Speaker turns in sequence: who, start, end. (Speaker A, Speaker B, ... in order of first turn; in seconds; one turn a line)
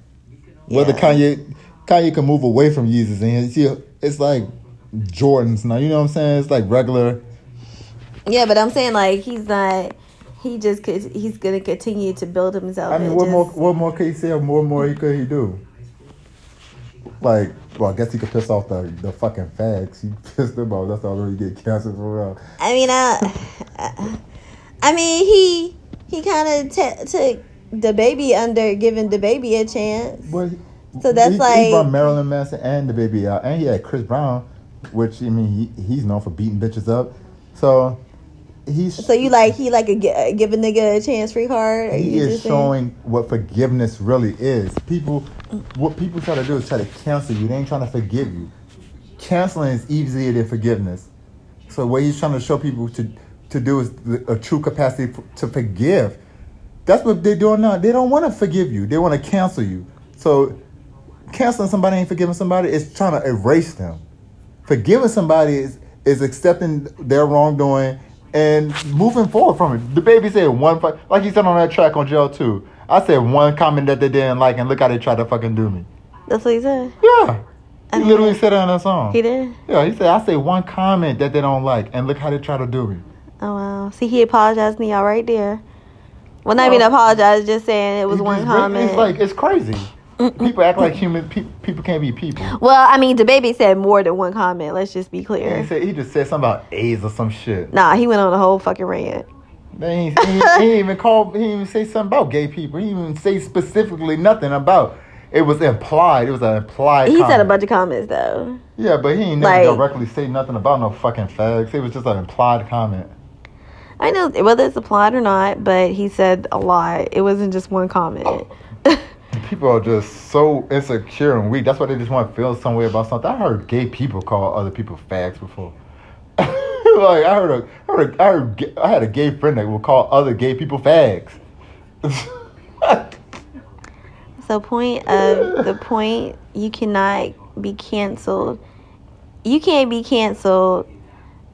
Speaker A: 0.7-7.2
Speaker B: 0.7-1.2
Speaker B: 8.3-13.5
Speaker A: 12.9-15.6
Speaker A: 17.2-22.4
Speaker B: 22.6-24.2
Speaker B: 24.8-30.3
Speaker A: 30.2-38.0
Speaker B: 31.0-31.9
Speaker A: 38.6-39.6
Speaker B: 39.0-42.7
Speaker A: 41.9-48.5
Speaker A: 49.2-51.1
Speaker A: 51.7-56.2
Speaker A: 56.9-60.6
Speaker A: 61.3-64.0
Speaker A: 64.7-75.9
Speaker B: 76.3-76.9
Speaker A: 77.0-77.4
Speaker B: 77.9-78.4
Speaker A: 77.9-83.0
Speaker B: 79.1-79.6
Speaker B: 83.4-85.6
Speaker B: 86.4-89.1
Speaker A: 86.6-86.9
Speaker A: 88.1-92.6
Speaker B: 90.2-91.0
Speaker B: 92.4-95.7
Speaker A: 95.4-97.7
Speaker B: 97.7-99.3
Speaker A: 99.8-107.5
Speaker B: 100.2-100.6
Speaker B: 107.0-108.6
Speaker A: 108.8-113.1
Speaker B: 109.4-109.8
Speaker B: 114.0-119.0
Speaker A: 119.3-125.8
Speaker A: 126.4-131.4
Speaker A: 132.0-133.2
Speaker B: 134.4-138.6
Speaker A: 135.1-135.8
Speaker B: 139.4-140.9